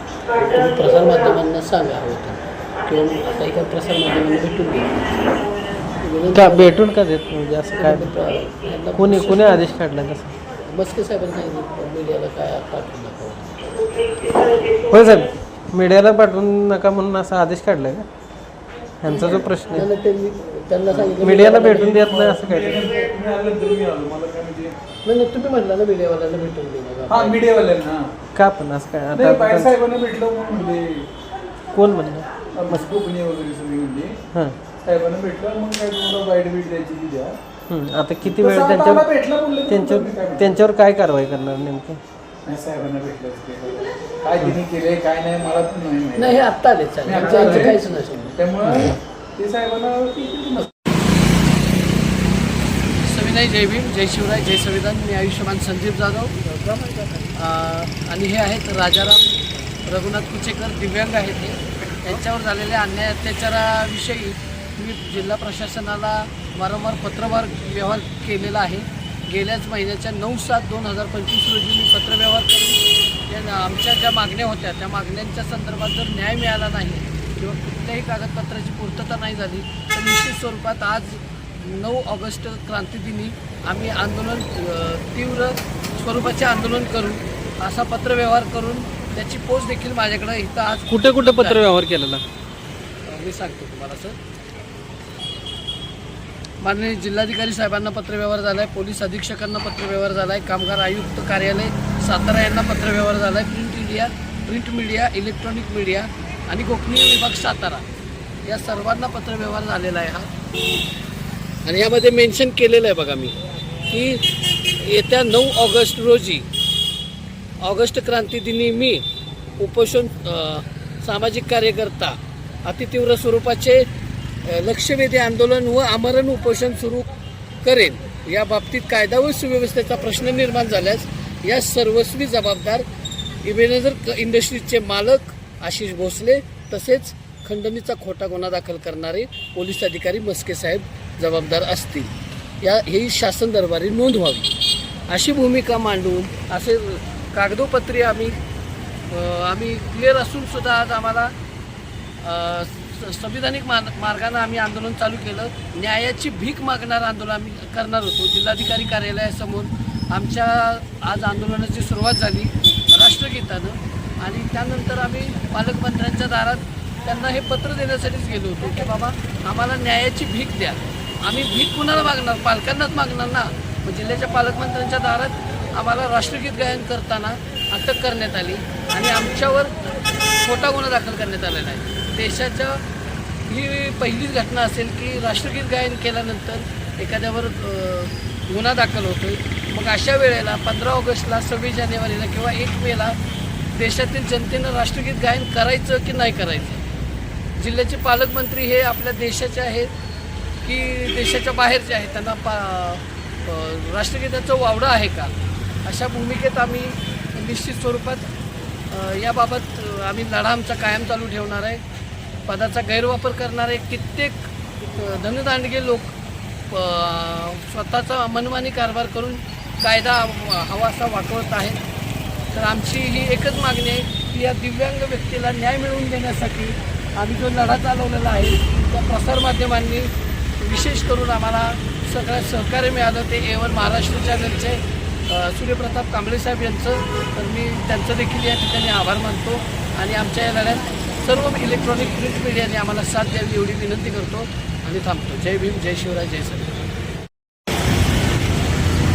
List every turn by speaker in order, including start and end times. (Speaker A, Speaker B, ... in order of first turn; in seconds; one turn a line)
Speaker A: 0.3-5.3
Speaker A: 6.0-6.8
Speaker B: 6.3-8.1
Speaker A: 7.8-9.7
Speaker B: 8.9-10.3
Speaker A: 10.7-13.8
Speaker B: 14.9-18.1
Speaker B: 19.0-19.9
Speaker A: 19.1-22.0
Speaker C: 19.1-19.5
Speaker C: 21.0-24.7
Speaker B: 21.2-22.9
Speaker A: 25.1-27.4
Speaker C: 27.1-28.1
Speaker B: 28.4-29.8
Speaker C: 29.1-31.1
Speaker B: 31.7-32.9
Speaker C: 32.5-34.2
Speaker C: 34.9-37.4
Speaker B: 37.7-39.1
Speaker C: 38.2-40.6
Speaker B: 39.7-42.0
Speaker C: 42.5-46.5
Speaker A: 46.2-48.4
Speaker C: 47.0-50.7
Speaker B: 48.7-49.0
Speaker A: 53.0-91.6
Speaker B: 90.9-92.2
Speaker A: 93.1-94.2
Speaker A: 96.6-107.8
Speaker A: 108.5-110.3
Speaker A: 111.7-113.4
Speaker A: 113.9-116.5
Speaker A: 117.6-119.0
Speaker A: 119.6-123.9
Speaker A: 124.5-127.1
Speaker A: 127.6-132.8
Speaker A: 133.4-144.5
Speaker A: 145.1-148.4
Speaker A: 149.1-151.3
Speaker A: 152.2-179.7
Speaker A: 180.4-182.8
Speaker A: 183.5-193.2
Speaker A: 193.7-196.8
Speaker A: 197.6-199.9
Speaker A: 200.6-208.3
Speaker A: 208.9-211.8
Speaker A: 212.5-216.2
Speaker A: 216.7-221.8
Speaker A: 222.5-246.9